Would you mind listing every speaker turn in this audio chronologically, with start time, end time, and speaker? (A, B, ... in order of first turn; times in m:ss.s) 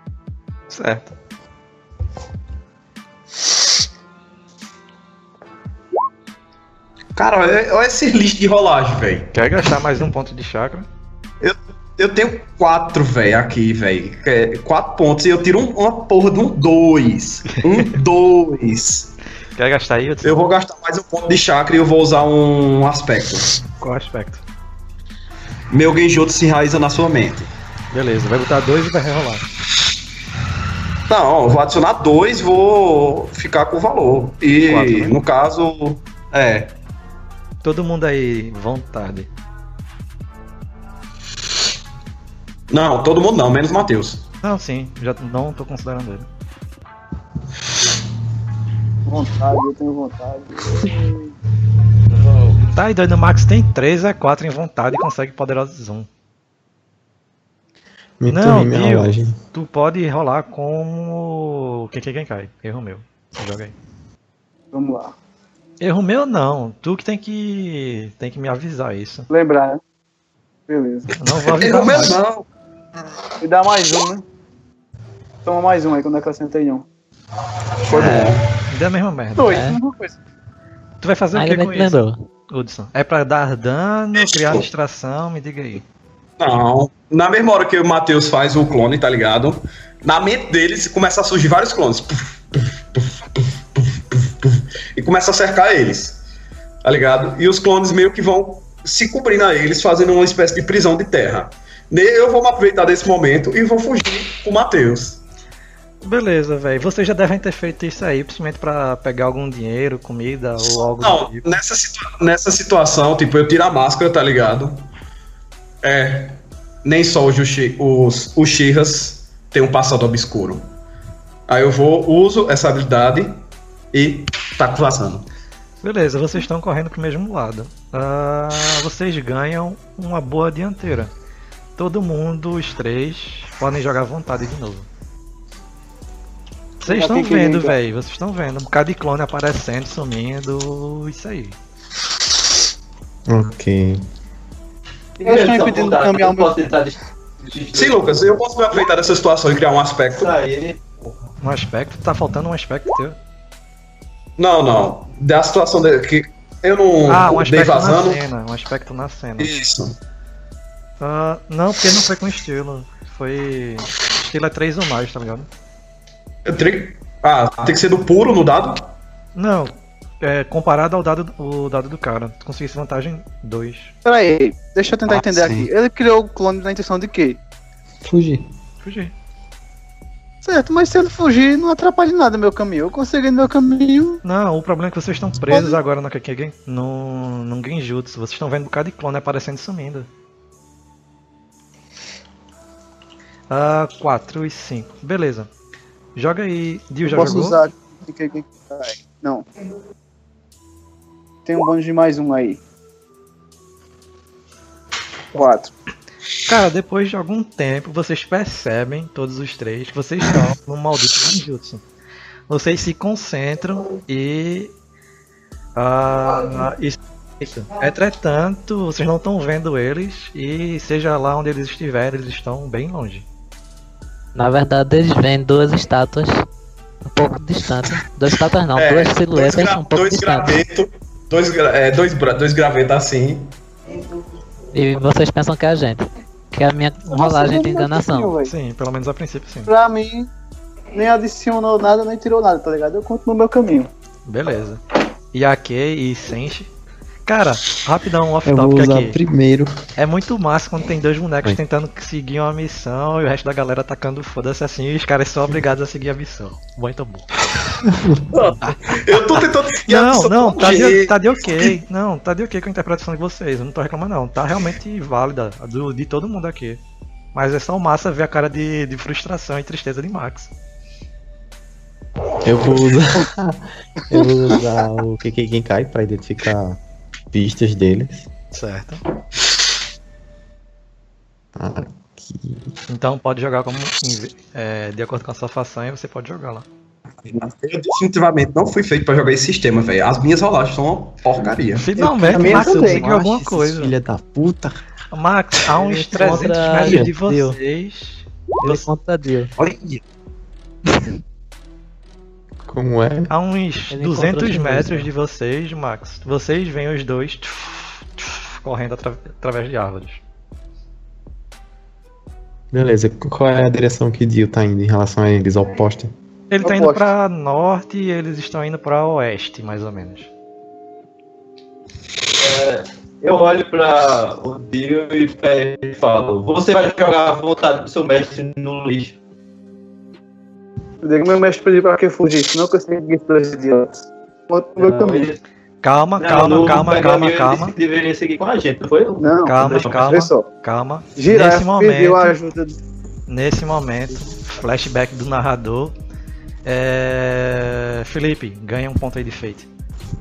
0:00.7-0:01.1 A
0:07.1-0:09.3 B
0:09.3-0:10.9 A
0:11.4-0:19.1 B
0:19.6-0:20.4 A
0:20.2-0:23.5 B
0:23.8-0:24.4 A
0:25.7-0:27.5 B
0:27.9-0:29.4 A
0:31.1-0:36.7 B
0:34.6-0:35.1 A
0:37.6-0:39.3 A
0:42.7-0:44.2 B
0:44.4-0:46.3 A
0:49.0-0:51.3 C
0:52.5-0:56.1 A
0:58.2-0:59.4 D
0:58.3-1:03.8 A
1:04.7-1:05.1 C
1:05.8-1:09.3 A
1:09.3-1:09.8 C
1:10.7-1:11.1 C
1:11.2-1:12.1 A
1:11.4-1:12.4 B
1:13.4-1:14.2 C
1:15.4-1:16.8 C
1:17.8-1:18.5 B
1:17.9-1:19.5 A
1:19.4-1:20.2 C
1:19.5-1:19.8 E
1:21.0-1:22.0 A
1:21.3-1:22.2 E
1:22.5-1:25.8 A
1:24.2-1:24.6 B
1:26.4-1:32.4 B
1:32.9-1:36.2 B
1:36.8-1:45.2 B
1:46.0-1:51.5 A
1:50.6-1:54.9 B
1:55.8-2:00.7 B
2:01.5-2:05.2 B
2:05.8-2:11.1 A
2:11.8-2:14.9 A
2:16.8-2:21.6 A
2:16.8-2:17.8 C
2:23.3-2:24.0 D
2:25.2-2:28.4 F
2:25.2-2:26.5 C
2:27.7-2:30.3 B
2:30.1-2:30.8 F
2:31.4-2:33.2 A
2:34.4-2:38.2 B
2:37.0-2:39.5 A
2:39.4-2:39.9 B
2:41.0-2:45.5 A
2:46.4-2:49.0 B
2:49.3-2:53.9 A
2:54.0-2:57.4 C
2:55.1-2:55.6 B
2:58.0-2:58.4 D
2:58.8-2:59.1 A
3:00.4-3:04.2 C
3:04.2-3:10.1 A
3:05.5-3:05.8 C
3:13.5-3:15.5 A
3:16.1-3:17.6 A
3:17.0-3:19.4 C
3:21.4-3:22.6 C
3:25.3-3:25.7 C
3:26.4-3:31.8 A
3:32.5-3:34.7 A
3:35.8-3:43.2 A
3:44.3-3:46.4 E
3:47.0-3:50.6 E
3:48.7-3:53.5 B
3:54.7-3:58.3 E
3:57.1-3:58.5 C
3:58.4-3:59.7 A
3:59.7-4:00.3 C
4:00.9-4:03.9 C
4:04.2-4:04.8 A
4:05.3-4:06.7 A
4:07.2-4:09.2 A
4:08.4-4:09.8 D
4:10.0-4:17.4 A
4:17.8-4:18.2 D
4:18.3-4:21.2 B
4:19.1-4:26.8 A
4:27.3-4:30.5 A
4:32.4-4:36.8 D
4:37.3-4:38.3 D
4:38.5-4:39.0 A
4:41.6-4:42.7 D
4:42.9-4:46.6 A
4:47.2-4:51.9 B
4:51.8-4:53.9 A
4:52.2-4:53.0 C
4:52.2-4:54.8 D
4:55.1-4:58.8 A
4:55.9-4:57.6 E
4:56.8-4:57.1 D
4:58.6-4:59.5 E
4:59.6-5:00.0 B
5:02.6-5:03.3 D
5:03.3-5:10.2 A
5:03.9-5:05.1 E
5:12.7-5:16.1 D
5:16.5-5:20.3 A
5:16.6-5:17.1 C
5:22.4-5:29.2 F
5:31.0-5:35.3 C
5:34.8-5:35.4 F
5:35.8-5:37.7 A
5:36.2-5:40.0 F
5:39.2-5:40.5 C
5:39.4-5:42.3 A
5:41.2-5:42.8 C
5:43.3-5:45.9 A
5:46.6-5:49.7 A